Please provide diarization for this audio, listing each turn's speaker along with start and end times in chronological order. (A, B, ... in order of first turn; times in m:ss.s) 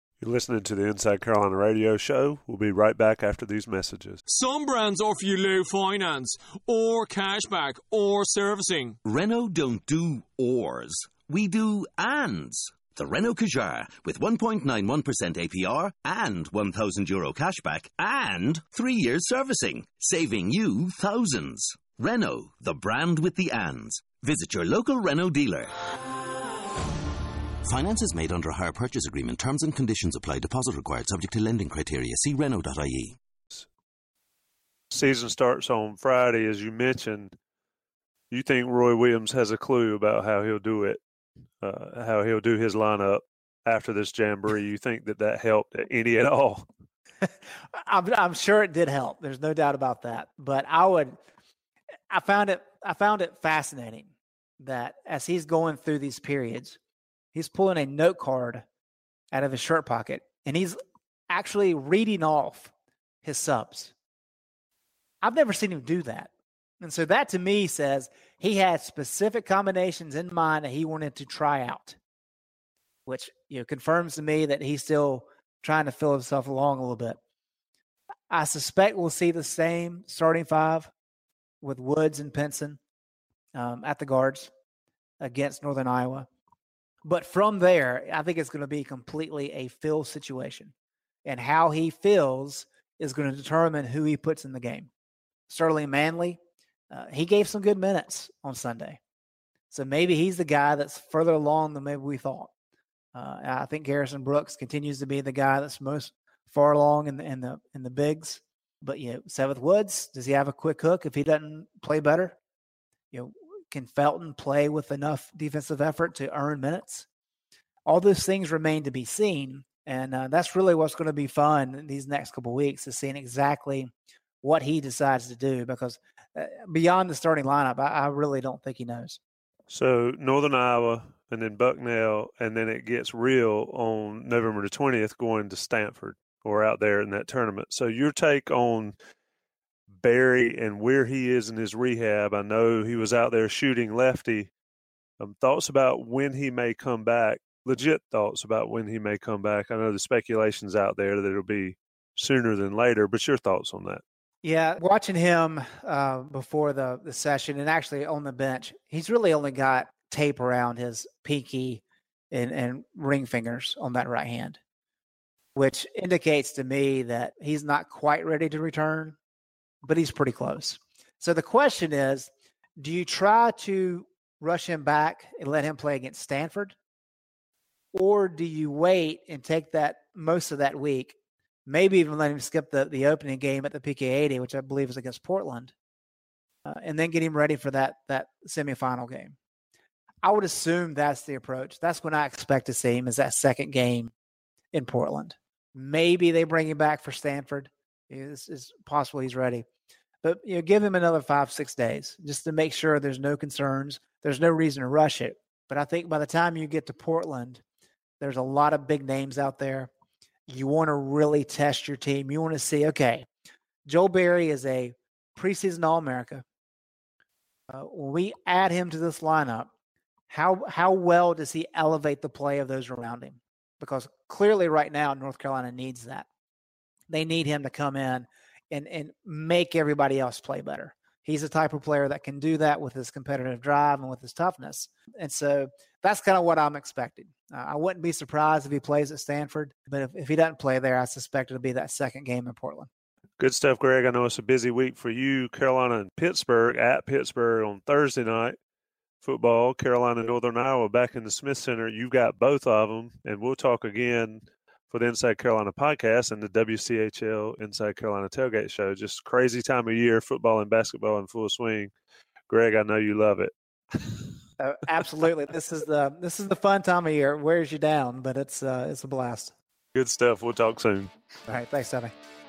0:00.2-0:04.2 A
0:04.3-0:09.0 B
0:09.0-0:25.7 C
0:27.6-0:33.2 C
0:34.9-0:37.3 A
0:38.3-0:41.0 A
0:41.6-0:46.6 A
0:47.2-0:51.2 D
0:52.1-0:56.8 D
0:57.3-0:58.6 D
0:59.3-1:00.8 D
1:01.3-1:03.9 D
1:05.2-1:12.0 D
1:13.0-1:17.2 D
1:18.3-1:20.9 D
1:21.6-1:22.8 D
1:23.5-1:24.5 D
1:25.2-1:26.3 D
1:27.0-1:30.7 D
1:31.2-1:34.9 D
1:35.5-1:36.4 D
1:36.9-1:39.0 D
1:39.7-1:42.5 D
1:43.1-1:52.4 D
1:53.1-1:57.1 D
1:57.9-2:03.9 D
2:04.4-2:09.2 D
2:09.7-2:18.9 A
2:19.9-2:24.5 A
2:25.2-2:34.0 A
2:34.4-2:44.6 D
2:45.5-2:49.2 D
2:49.8-2:56.8 D
2:57.9-3:05.7 D
3:06.6-3:09.3 D
3:10.2-3:14.1 D
3:14.7-3:19.6 D
3:20.2-3:27.6 D
3:28.2-3:29.9 D
3:30.5-3:33.3 D
3:33.8-3:36.4 D
3:37.7-3:39.7 D
3:40.3-3:46.3 D
3:47.1-4:02.9 D
4:03.4-4:08.6 A
4:09.2-4:21.9 A
4:22.5-4:24.2 A
4:24.6-4:29.5 D
4:29.9-4:31.1 A
4:31.5-4:32.1 D